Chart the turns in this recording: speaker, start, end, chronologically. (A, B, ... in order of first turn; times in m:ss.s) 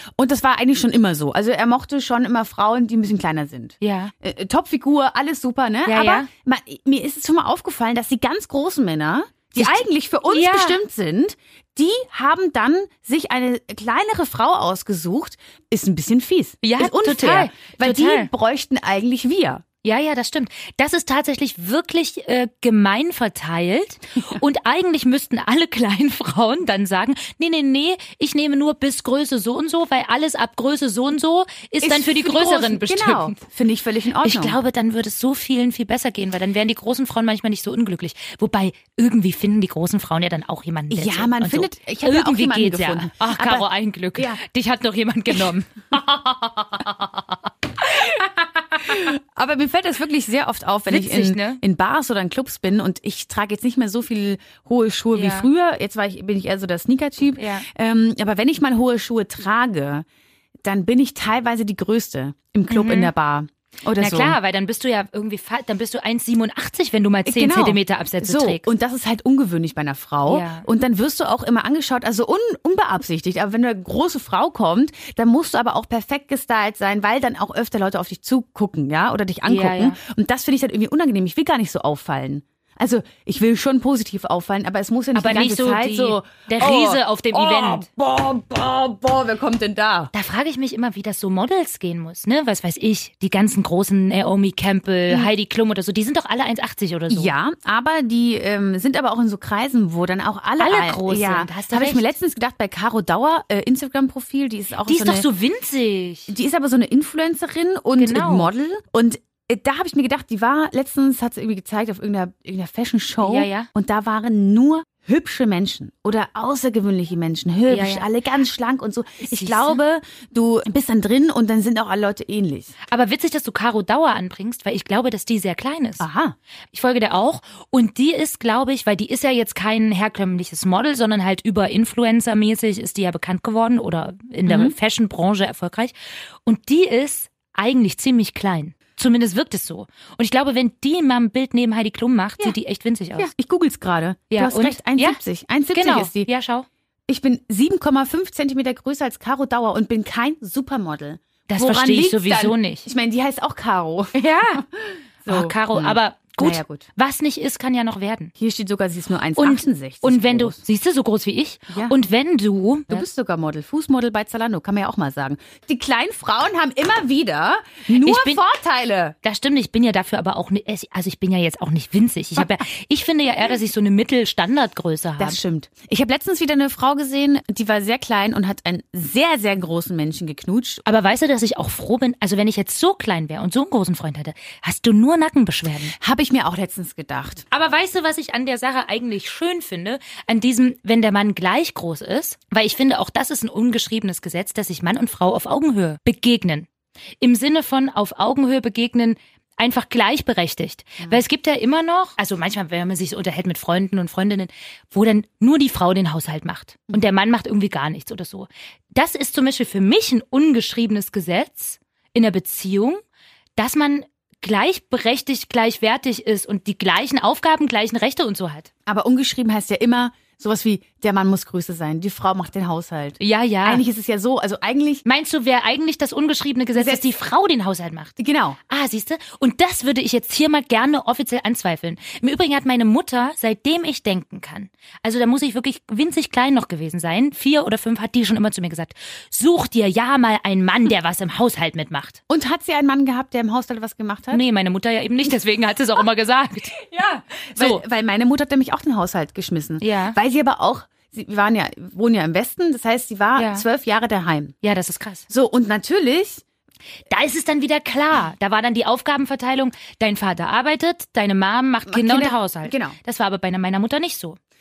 0:00.2-0:19.6 A
0:03.8-0:04.1 B
0:05.9-0:06.3 B
0:09.6-0:10.8 B
0:16.6-0:18.3 B
0:19.8-0:33.4 B
0:31.8-0:34.6 A
0:34.2-0:47.4 B
0:40.9-0:44.4 A
0:48.8-1:00.0 A
0:50.9-0:51.6 B
0:55.1-0:55.5 B
0:57.4-0:57.7 B
1:00.6-1:04.4 A
1:02.7-1:03.1 B
1:04.0-1:08.7 B
1:07.2-1:30.1 A
1:10.3-1:10.7 B
1:19.5-1:20.0 B
1:25.1-1:27.9 B
1:30.1-1:37.3 B
1:37.1-1:45.3 A
1:40.6-1:42.1 B
1:44.9-1:46.3 B
1:46.3-2:02.7 A
1:48.0-1:48.5 B
1:53.2-1:53.7 B
1:57.7-1:58.1 B
1:59.2-1:59.8 B
2:02.9-2:06.1 B
2:06.0-2:06.4 A
2:06.7-2:16.0 B
2:14.5-2:14.8 A
2:16.5-2:23.3 B
2:23.2-2:26.3 A
2:24.3-2:25.2 B
2:25.7-2:26.6 B
2:27.1-2:36.9 A
2:31.5-2:32.9 B
2:34.1-2:34.6 B
2:35.3-2:38.3 B
2:38.4-2:40.6 A
2:39.4-2:43.1 B
2:41.7-2:42.0 A
2:42.9-2:49.1 A
2:47.9-2:48.4 B
2:49.2-2:55.4 B
2:55.2-3:00.8 A
3:00.8-3:06.0 B
3:06.0-3:07.4 A
3:07.5-3:16.7 B
3:17.2-3:33.0 B
3:33.6-3:38.7 B
3:38.9-3:45.0 A
3:43.2-3:43.8 B
3:45.0-3:48.2 B
3:46.8-3:47.0 A
3:48.2-3:48.6 A
3:48.7-4:02.2 B
4:02.3-4:04.4 A
4:04.3-4:07.8 B
4:07.6-4:14.6 A
4:09.8-4:10.2 B
4:13.4-4:13.6 B
4:14.6-4:15.2 B
4:15.3-4:16.4 A
4:17.1-4:24.4 B
4:21.9-4:23.0 A